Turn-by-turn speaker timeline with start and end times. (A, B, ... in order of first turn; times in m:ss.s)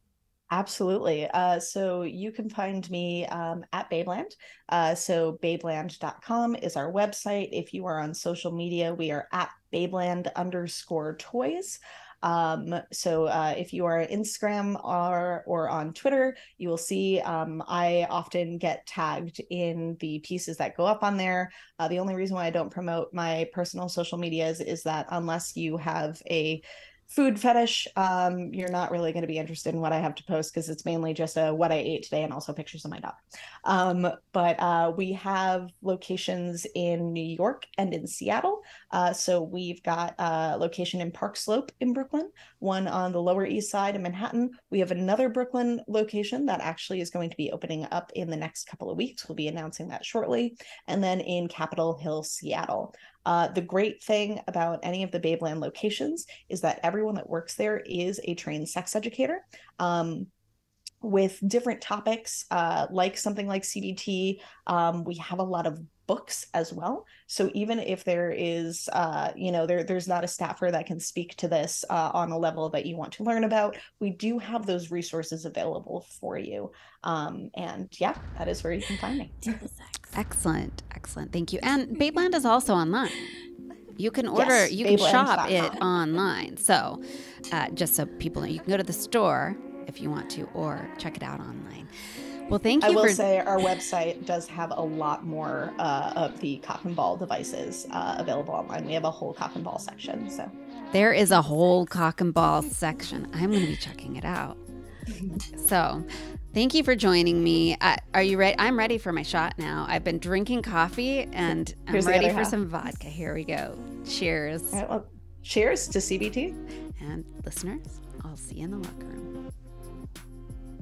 0:00.5-1:00.3 A
1:01.0-1:19.5 A
1:20.1-1:23.3 B
1:24.0-1:27.0 B
1:24.3-1:25.8 A
1:27.5-1:31.9 B
1:32.5-1:33.2 B
1:32.8-1:40.5 A
1:40.9-1:44.6 B
1:45.6-1:54.8 B
1:51.9-1:52.6 A
1:54.7-1:56.6 A
1:57.0-1:59.3 B